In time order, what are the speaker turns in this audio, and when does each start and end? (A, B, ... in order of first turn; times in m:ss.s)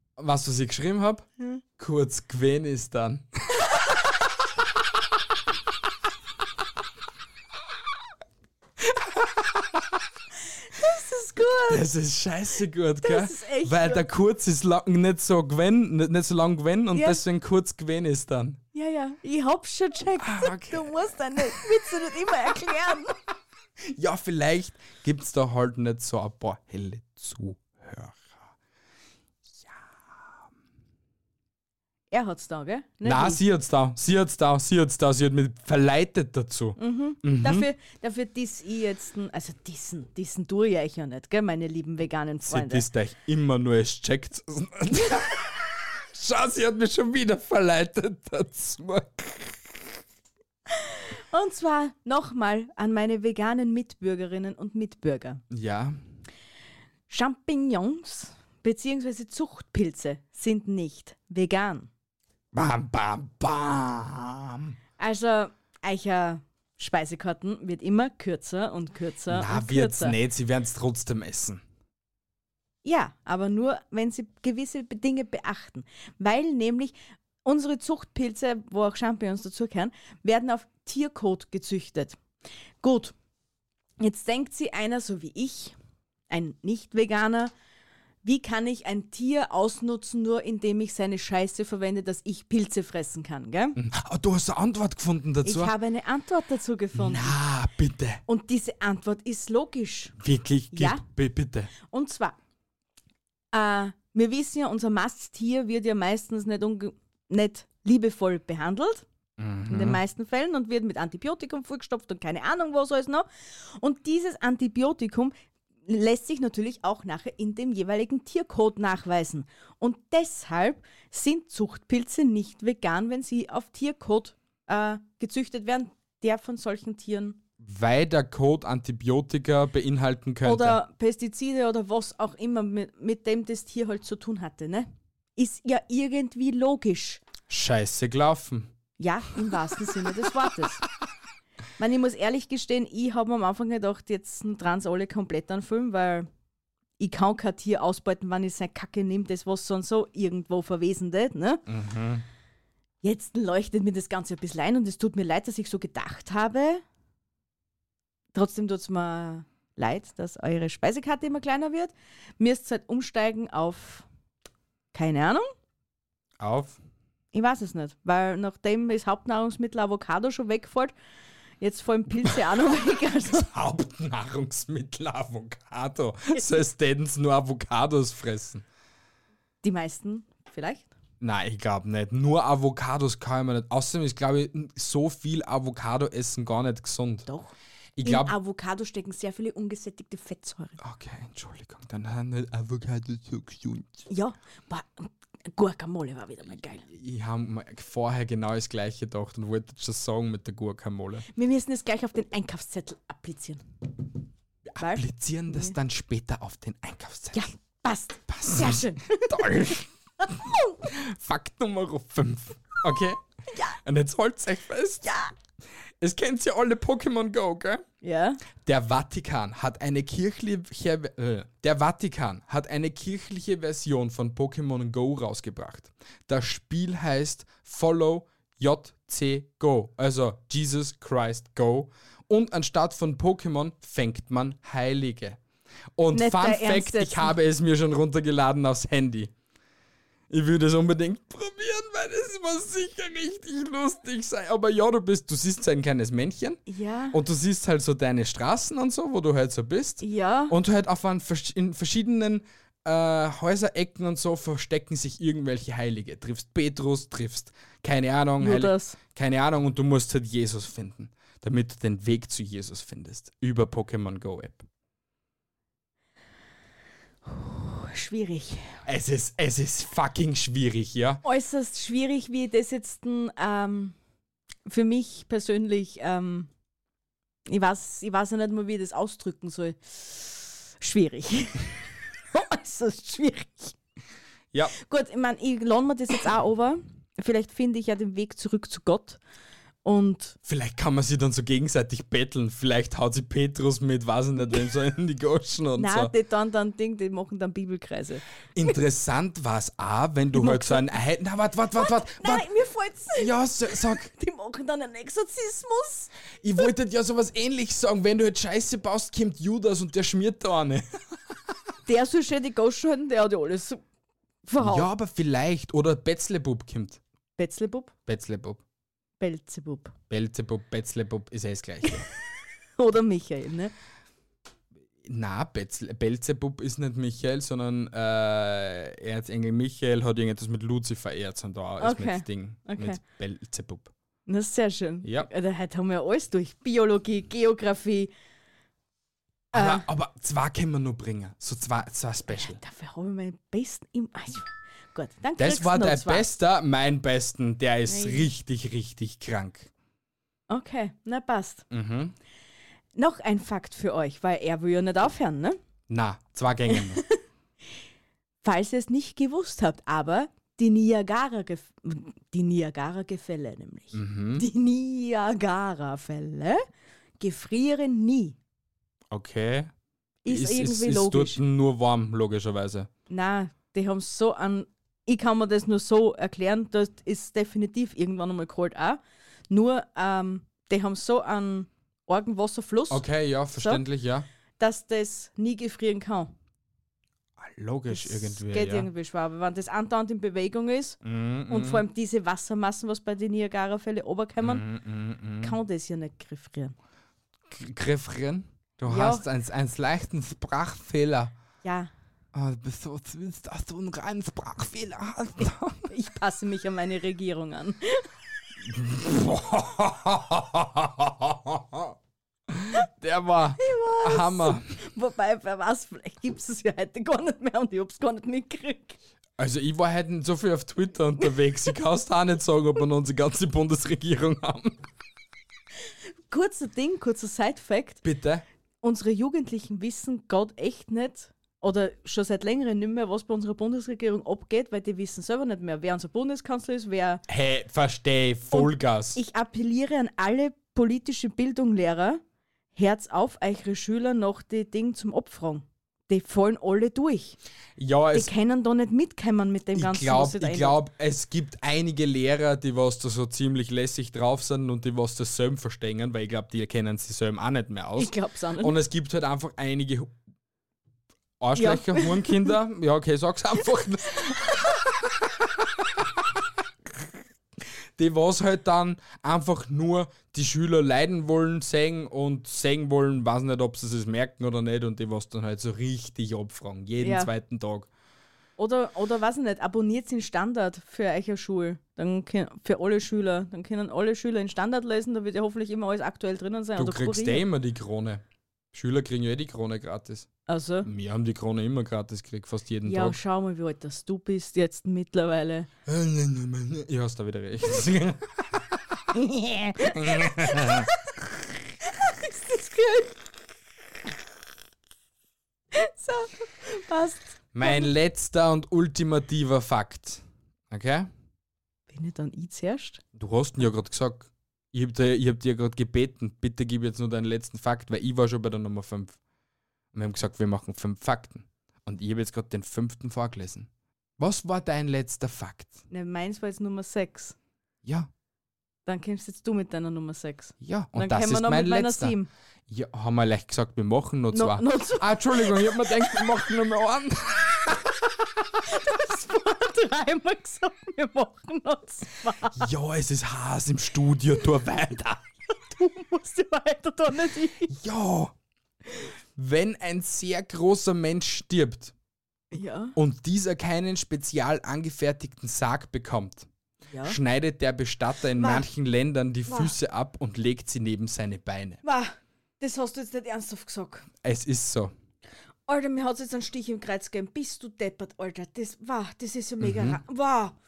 0:00.2-0:03.8 A
0:08.8-0:09.8 A
0:10.7-0:11.8 B
0:11.7-0:18.6 A
0:13.0-0:14.0 B
0:16.9-0:17.2 B
0:18.7-0:23.2 B
0:20.2-0:21.9 A
0:23.9-0:28.5 A
0:32.1-0:33.4 B
0:33.0-0:37.7 A
0:36.8-0:42.8 B
0:42.4-0:49.8 A
0:50.7-0:55.4 B
0:55.5-0:56.0 A
0:57.1-1:01.9 B
1:02.5-1:04.8 A
1:05.0-1:10.2 B
1:09.3-1:11.6 A
1:12.8-1:22.2 B
1:22.8-1:23.1 B
1:24.0-1:25.7 B
1:26.3-1:27.5 B
1:28.2-1:33.8 B
1:33.8-1:35.7 A
1:35.4-1:37.4 B
1:36.9-1:38.2 A
1:38.3-1:40.2 B
1:40.2-1:41.7 A
1:40.7-1:41.0 B
1:41.8-1:42.4 B
1:43.5-1:49.0 B
1:49.4-1:50.0 A
1:49.7-1:55.3 B
1:55.8-2:07.4 B
2:07.6-2:10.8 A
2:10.4-2:17.2 B
2:17.5-2:18.7 A
2:19.0-2:20.8 B
2:21.8-2:26.3 B
2:27.0-2:31.6 B
2:31.7-2:32.2 A
2:33.0-2:36.8 B
2:38.3-2:44.0 B
2:44.9-2:45.5 B
2:46.4-2:46.8 A
2:47.3-2:50.9 B
2:51.6-2:53.5 B
2:53.3-2:58.6 A
2:56.3-2:56.6 B
2:59.6-3:00.9 B
3:01.2-3:07.3 A
3:07.3-3:10.8 B
3:08.0-3:08.3 A
3:10.8-3:14.1 A
3:14.1-3:16.8 B
3:16.8-3:21.2 A
3:21.3-3:23.6 B
3:24.7-3:27.4 A
3:24.8-3:25.7 B
3:27.3-3:29.5 B
3:28.3-3:33.2 A
3:33.5-3:33.8 B
3:33.8-3:35.1 A
3:35.0-3:35.3 B
3:36.0-3:37.8 A
3:38.0-3:38.4 B
3:38.6-3:55.4 A
3:56.0-3:59.3 A
3:56.1-3:57.4 B
4:00.3-4:24.6 A
4:06.7-4:07.2 B
4:10.0-4:10.6 B
4:18.4-4:19.0 B
4:27.2-4:28.8 B
4:28.8-4:31.2 A
4:31.2-4:33.9 B
4:34.6-4:36.5 B
4:37.5-4:41.8 B
4:42.3-4:43.8 B
4:44.8-4:49.2 B
4:49.8-4:50.4 B
4:50.4-4:56.1 A
4:55.8-4:58.2 B
4:58.6-5:02.4 A
5:00.3-5:00.8 B
5:01.8-5:06.1 B
5:03.1-5:04.1 A
5:06.4-5:10.9 A
5:11.8-5:13.8 B
5:14.4-5:14.9 B
5:14.6-5:17.0 A
5:17.4-5:17.9 B
5:18.0-5:18.6 A
5:19.2-5:19.9 B
5:20.1-5:22.0 A
5:22.8-5:23.7 B
5:25.0-5:33.9 A
5:31.8-5:33.0 B
5:34.3-5:38.1 B
5:35.0-5:35.3 A
5:39.5-5:39.9 B
5:39.5-5:42.6 A
5:42.3-5:46.3 B
5:45.4-5:49.7 A
5:47.9-5:48.3 B
5:50.5-5:51.6 B
5:51.7-5:52.1 A
5:53.0-5:55.6 B
5:55.9-5:57.0 A
5:56.8-5:57.1 B
5:58.4-6:06.6 B
6:03.9-6:04.5 A
6:07.2-6:08.4 B
6:09.1-6:09.7 A
6:10.2-6:11.4 B
6:10.2-6:12.9 A
6:13.1-6:23.8 B
6:22.9-6:24.2 A
6:24.6-6:26.3 B
6:27.4-6:28.9 A
6:27.9-6:31.0 B
6:31.0-6:31.8 A
6:31.5-6:34.6 B
6:34.4-6:35.6 A
6:35.4-6:36.7 B
6:37.5-6:41.3 A
6:38.8-6:39.2 B
6:41.6-6:41.9 B
6:42.3-6:45.9 A
6:45.9-6:48.1 B
6:48.6-6:51.9 A
6:52.5-6:54.7 A
6:53.6-6:59.0 B
6:59.4-7:04.8 A
7:06.3-7:08.0 B
7:08.0-7:08.4 A
7:08.8-7:17.2 B
7:17.3-7:19.2 A
7:18.5-7:22.2 B
7:22.7-7:27.4 B
7:27.8-7:28.3 A
7:28.1-7:30.8 B
7:29.7-7:40.1 A
7:38.0-7:38.8 B
7:41.4-7:47.1 A
7:41.6-7:42.5 B
7:44.2-7:44.5 B
7:48.0-7:57.9 A
7:57.0-7:57.3 B
7:58.6-8:07.4 B
8:06.8-8:10.3 A
8:10.5-8:10.9 B
8:10.8-8:13.2 A
8:12.8-8:15.7 B
8:15.8-8:19.0 A
8:19.1-8:20.9 B
8:19.8-8:20.9 A
8:21.8-8:23.2 B
8:25.7-8:27.9 B
8:27.5-8:31.1 A
8:31.9-8:33.0 B
8:33.1-8:39.2 A
8:39.9-8:45.8 A
8:45.9-8:47.4 B
8:47.8-8:48.1 A
8:48.8-8:52.3 B
8:50.6-8:52.2 A
8:52.7-8:58.4 A
8:54.3-8:56.3 B
8:58.6-9:02.7 B
9:02.6-9:05.2 A
9:05.7-9:07.7 B
9:07.7-9:08.3 A
9:09.4-9:11.9 A
9:12.5-9:13.0 B
9:13.0-9:16.5 A
9:16.9-9:17.2 B
9:17.0-9:21.8 A
9:18.4-9:18.7 B
9:19.5-9:19.7 B
9:21.8-9:24.1 B
9:24.2-9:24.9 A
9:25.7-9:30.6 B
9:29.6-9:30.0 A